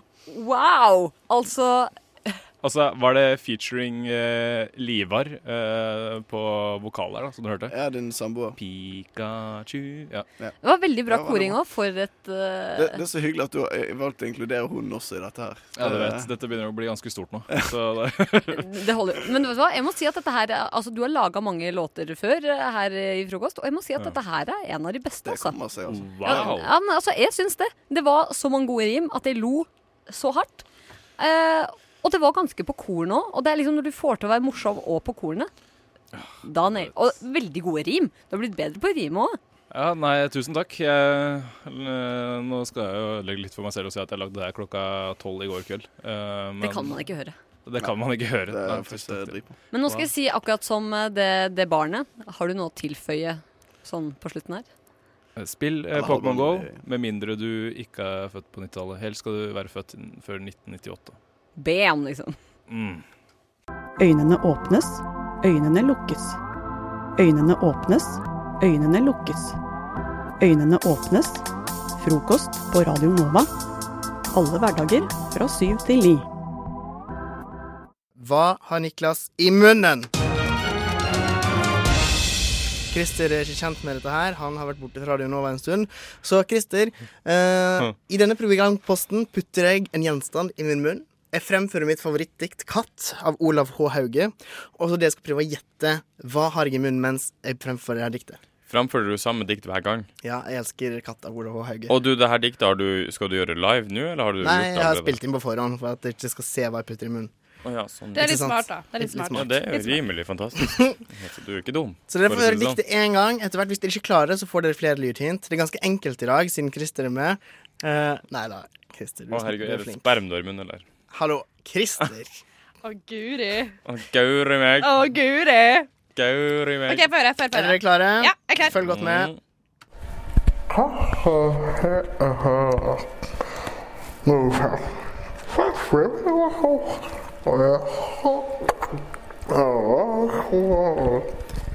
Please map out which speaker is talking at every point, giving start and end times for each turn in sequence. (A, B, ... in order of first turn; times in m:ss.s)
0:00.2-0:02.3 A
0:02.6-0:07.7 B
0:07.7-0:08.6 C
0:08.6-0:10.2 B
0:10.6-0:13.0 A
0:11.1-0:11.6 C
0:12.7-0:16.3 C
0:15.8-0:18.6 B
0:18.5-0:25.6 A
0:25.2-0:26.6 C
0:25.9-0:26.7 B
0:26.2-0:30.6 A
0:31.2-0:35.5 A
0:36.4-0:39.4 A
0:39.7-0:47.0 B
0:46.6-0:47.4 A
0:47.6-0:50.1 B
0:47.8-0:49.6 C
0:49.7-0:54.7 A
0:55.4-1:01.2 B
0:55.9-0:56.8 C
1:01.6-1:02.4 A
1:02.7-1:03.0 B
1:04.0-1:06.4 D
1:07.2-1:09.6 D
1:10.4-1:11.4 D
1:12.0-1:13.5 D
1:14.3-1:16.3 D
1:18.2-1:20.1 E
1:22.9-1:38.4 E
1:38.6-1:40.1 F
1:40.2-1:41.9 E
1:41.9-1:45.2 F
1:44.4-1:47.3 E
1:47.6-1:48.3 F
1:48.1-1:50.0 G
1:48.2-1:49.5 E
1:49.3-1:52.8 F
1:50.6-1:51.0 E
1:52.1-2:00.1 E
1:59.3-2:00.9 F
2:01.1-2:02.4 E
2:02.8-2:03.8 G
2:03.8-2:04.9 F
2:04.8-2:05.9 G
2:06.1-2:07.1 F
2:06.9-2:08.7 G
2:07.5-2:09.3 E
2:08.8-2:09.4 F
2:10.7-2:13.0 H
2:14.2-2:14.9 H
2:15.5-2:18.4 H
2:19.5-2:21.2 H